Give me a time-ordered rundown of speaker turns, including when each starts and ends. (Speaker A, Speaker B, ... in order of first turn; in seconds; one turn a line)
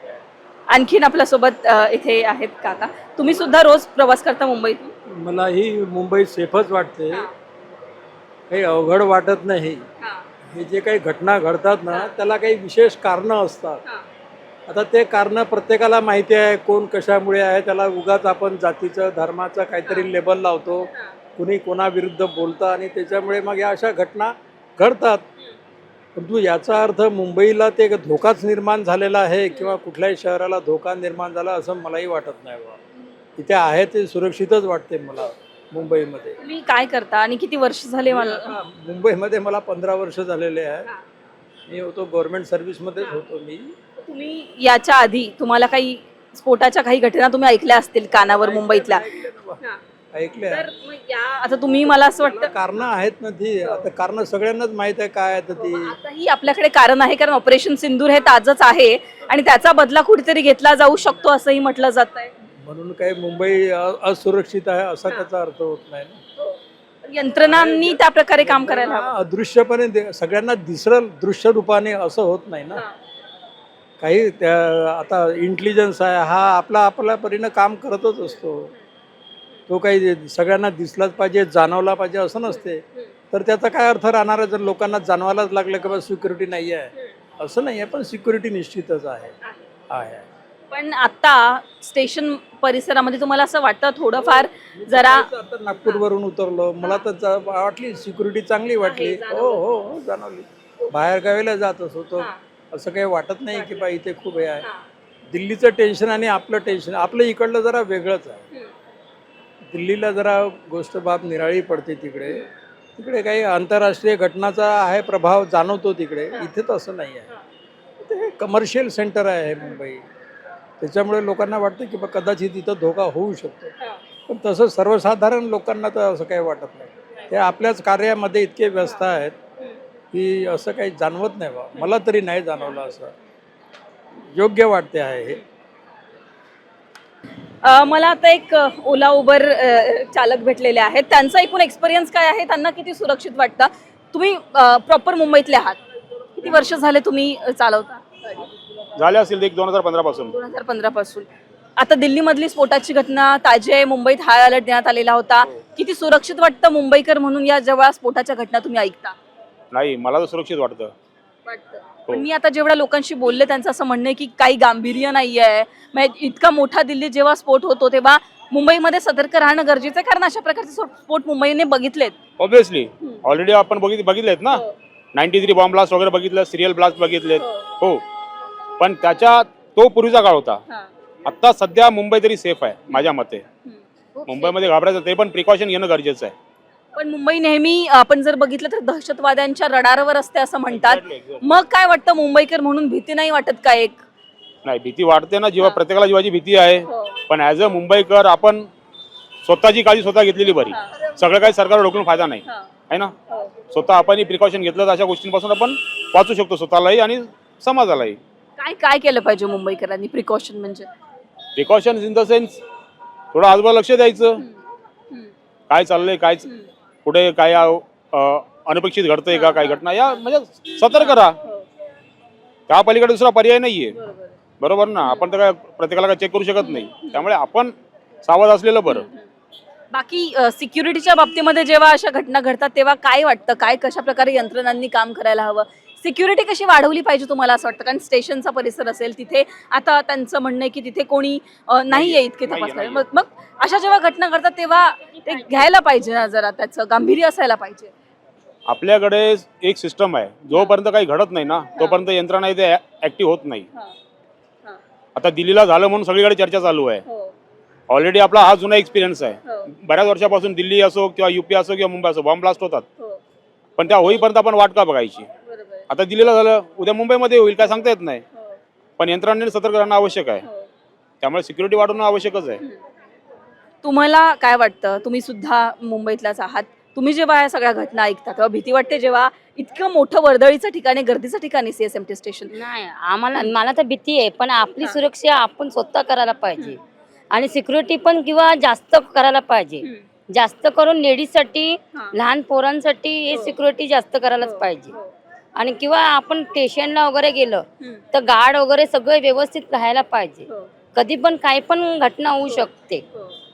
Speaker A: 0.7-4.9
Speaker B: 5.1-7.3
Speaker B: 8.5-9.8
Speaker A: 10.0-10.2
Speaker B: 10.5-13.8
Speaker B: 14.7-25.2
Speaker A: 19.8-20.1
Speaker A: 20.9-21.1
Speaker B: 26.1-32.8
Speaker A: 29.5-29.8
Speaker B: 33.4-36.4
Speaker A: 36.4-38.5
Speaker B: 38.0-40.9
Speaker B: 41.7-43.7
Speaker A: 44.0-49.0
Speaker B: 48.2-49.6
Speaker B: 50.1-50.6
Speaker A: 50.5-52.9
Speaker B: 51.8-56.0
Speaker A: 53.6-53.9
Speaker A: 55.5-62.3
Speaker B: 62.6-66.2
Speaker A: 66.4-69.2
Speaker B: 67.4-72.8
Speaker B: 74.0-78.7
Speaker B: 79.7-89.3
Speaker A: 82.5-83.1
Speaker B: 89.9-90.2
Speaker A: 90.7-95.3
Speaker B: 94.8-104.7
Speaker A: 96.8-97.1
Speaker A: 98.8-99.7
Speaker A: 103.5-103.9
Speaker B: 105.3-108.4
Speaker B: 109.7-117.3
Speaker B: 118.2-120.0
Speaker B: 120.8-123.7
Speaker B: 124.3-129.3
Speaker B: 130.1-133.1
Speaker B: 134.3-135.4
Speaker A: 137.6-145.8
Speaker A: 146.4-148.5
Speaker C: 148.9-150.3
Speaker A: 150.3-159.2
Speaker C: 159.7-160.9
Speaker A: 161.4-172.2
Speaker C: 172.4-174.6
Speaker A: 174.5-174.8
Speaker C: 175.1-178.0
Speaker A: 177.4-177.7
Speaker C: 178.8-180.6
Speaker C: 181.2-183.4
Speaker C: 184.2-186.3
Speaker A: 186.9-194.0
Speaker C: 190.7-191.4
Speaker C: 194.6-198.7
Speaker A: 196.8-197.2
Speaker C: 199.4-203.1
Speaker A: 203.3-203.5
Speaker C: 203.7-208.2
Speaker A: 208.6-210.9
Speaker C: 211.6-212.6
Speaker C: 213.3-214.4
Speaker C: 215.7-216.4
Speaker A: 216.4-216.7
Speaker C: 217.0-221.4
Speaker A: 219.3-219.8
Speaker A: 220.9-221.7
Speaker C: 222.7-224.0
Speaker A: 223.9-224.3
Speaker C: 224.6-229.1
Speaker A: 225.0-225.3
Speaker A: 226.6-227.3
Speaker A: 228.9-229.3
Speaker A: 229.9-247.9
Speaker C: 241.9-243.1
Speaker C: 248.7-253.7
Speaker A: 250.5-250.8
Speaker A: 251.8-252.0
Speaker C: 255.1-257.0
Speaker A: 257.1-257.3
Speaker C: 257.9-262.8
Speaker A: 259.4-259.7
Speaker C: 263.8-265.3
Speaker A: 265.4-265.9
Speaker C: 265.9-268.2
Speaker C: 269.0-270.4
Speaker A: 270.4-270.7
Speaker C: 271.2-272.6
Speaker A: 273.8-282.5
Speaker D: 282.5-286.8
Speaker D: 287.3-294.9
Speaker A: 294.4-295.1
Speaker D: 295.6-303.0
Speaker A: 300.5-300.8
Speaker A: 302.5-303.3